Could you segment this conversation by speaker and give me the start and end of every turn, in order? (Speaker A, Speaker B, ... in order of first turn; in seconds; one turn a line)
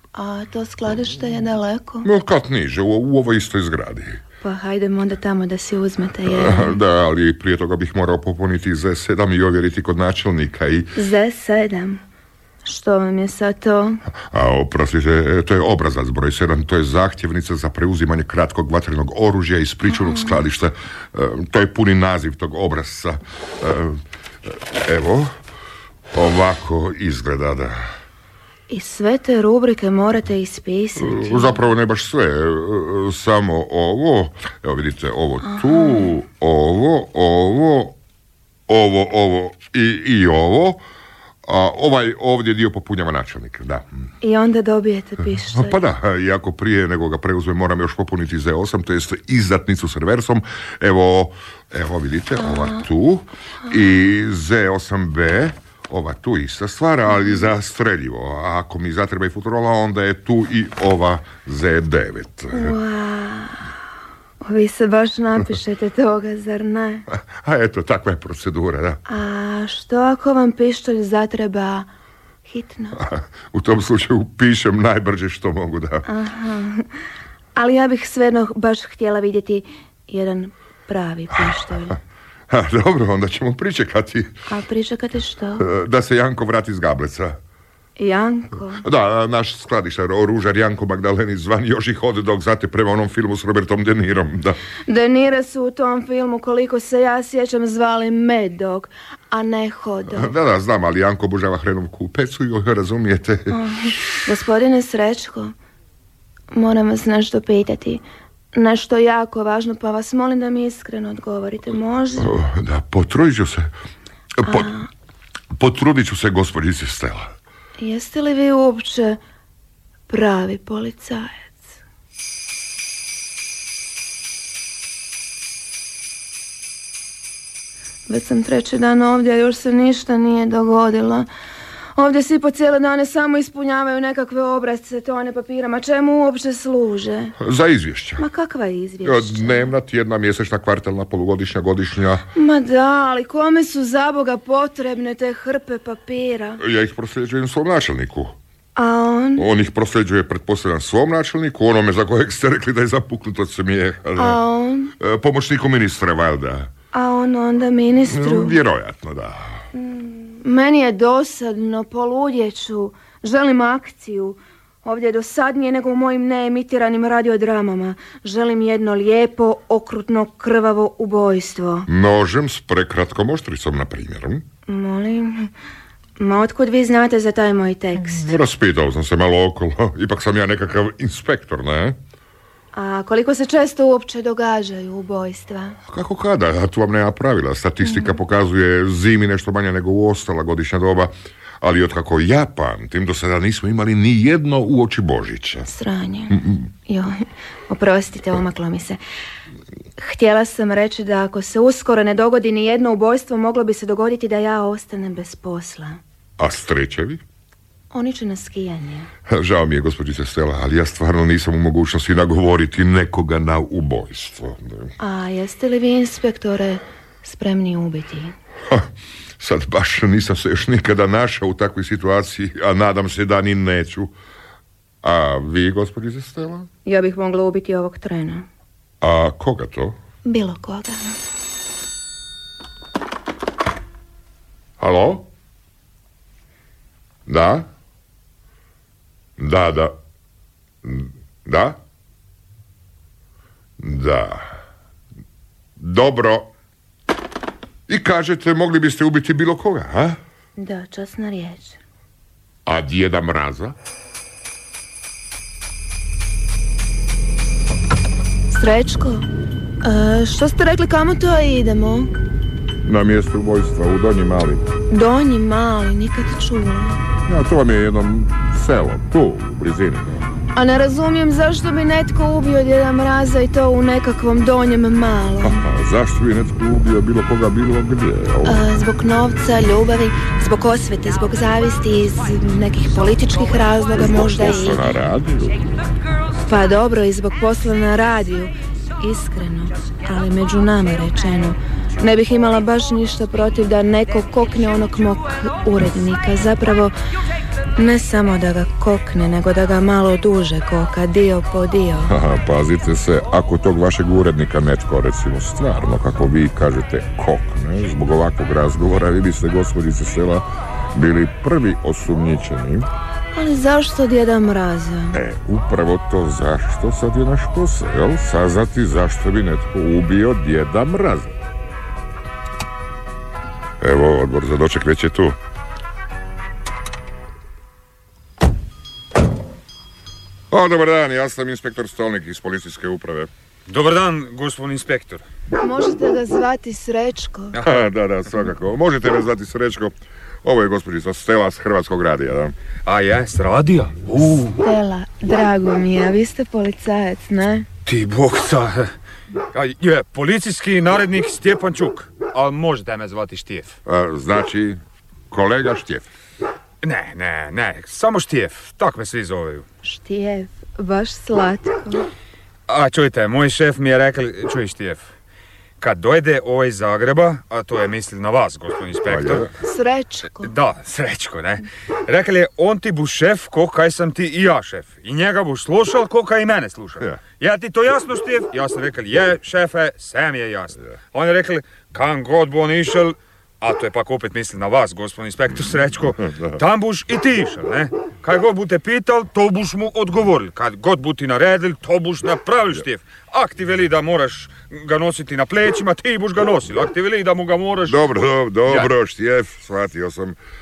Speaker A: 0.1-2.1
Speaker B: 2.0-4.2
Speaker A: 4.4-6.8
Speaker B: 6.2-10.9
Speaker A: 10.9-12.0
Speaker A: 12.6-14.0
Speaker B: 14.3-25.3
Speaker A: 20.1-20.4
Speaker B: 26.1-27.8
Speaker A: 28.7-31.6
Speaker B: 31.0-38.0
Speaker A: 35.4-36.2
Speaker B: 38.7-40.8
Speaker B: 41.4-44.0
Speaker A: 44.2-45.8
Speaker B: 45.5-62.8
Speaker A: 52.4-52.9
Speaker A: 62.5-63.7
Speaker A: 64.4-67.1
Speaker B: 67.1-69.0
Speaker A: 69.1-71.9
Speaker A: 72.5-73.0
Speaker B: 73.0-76.0
Speaker A: 76.1-76.9
Speaker A: 77.5-82.0
Speaker B: 81.4-81.7
Speaker B: 82.5-84.3
Speaker A: 84.5-85.7
Speaker B: 85.6-87.4
Speaker A: 88.0-88.8
Speaker B: 88.8-94.6
Speaker A: 94.9-100.3
Speaker B: 100.1-103.6
Speaker A: 103.5-105.5
Speaker A: 106.5-108.0
Speaker A: 108.5-112.3
Speaker B: 112.2-113.7
Speaker B: 114.4-114.7
Speaker A: 114.5-114.9
Speaker B: 115.5-117.3
Speaker A: 117.8-119.2
Speaker A: 120.1-121.6
Speaker A: 128.1-131.3
Speaker A: 132.0-137.3
Speaker B: 137.4-138.2
Speaker A: 138.2-139.7
Speaker B: 139.0-142.3
Speaker A: 142.3-146.6
Speaker B: 146.6-148.3
Speaker A: 148.8-149.5
Speaker B: 149.4-154.4
Speaker A: 154.2-154.9
Speaker B: 155.0-156.7
Speaker A: 156.9-158.6
Speaker B: 158.1-159.6
Speaker A: 159.7-171.9
Speaker B: 171.9-174.4
Speaker A: 174.7-175.5
Speaker A: 176.2-178.3
Speaker B: 178.1-182.0
Speaker A: 182.7-185.8
Speaker B: 185.9-195.7
Speaker A: 195.7-199.0
Speaker B: 196.3-196.6
Speaker A: 200.0-206.0
Speaker B: 206.4-207.2
Speaker A: 207.9-209.1
Speaker B: 209.3-214.9
Speaker A: 215.0-218.3
Speaker B: 218.7-224.1
Speaker B: 225.0-226.7
Speaker A: 226.8-228.5
Speaker B: 229.0-230.0
Speaker A: 230.2-231.2
Speaker B: 234.8-235.3
Speaker B: 237.3-237.7
Speaker B: 239.4-240.0
Speaker B: 240.8-241.8
Speaker B: 243.8-244.5
Speaker B: 245.8-246.5
Speaker B: 247.9-250.2
Speaker A: 250.6-251.8
Speaker B: 252.7-253.8
Speaker A: 258.5-259.3
Speaker A: 259.8-262.1
Speaker B: 262.8-264.7
Speaker A: 264.9-267.0
Speaker B: 267.3-270.2
Speaker A: 270.5-275.6
Speaker B: 275.4-278.6
Speaker A: 278.4-284.9
Speaker B: 284.0-285.6
Speaker A: 286.4-296.9
Speaker A: 297.8-302.1
Speaker B: 302.1-312.9
Speaker A: 313.3-315.2
Speaker B: 315.1-321.4
Speaker B: 323.8-325.4
Speaker B: 330.5-333.3
Speaker C: 333.7-335.2
Speaker A: 335.6-337.6
Speaker C: 337.5-337.8
Speaker B: 337.6-342.5
Speaker C: 342.9-344.6
Speaker A: 344.6-347.6
Speaker C: 347.9-348.9
Speaker C: 349.5-353.8
Speaker B: 353.9-354.8
Speaker B: 355.3-356.1
Speaker C: 356.8-359.6
Speaker A: 359.8-362.1
Speaker C: 362.7-365.1
Speaker C: 365.8-369.5
Speaker B: 369.1-369.5
Speaker A: 369.6-370.5
Speaker C: 370.4-398.9
Speaker B: 397.9-400.4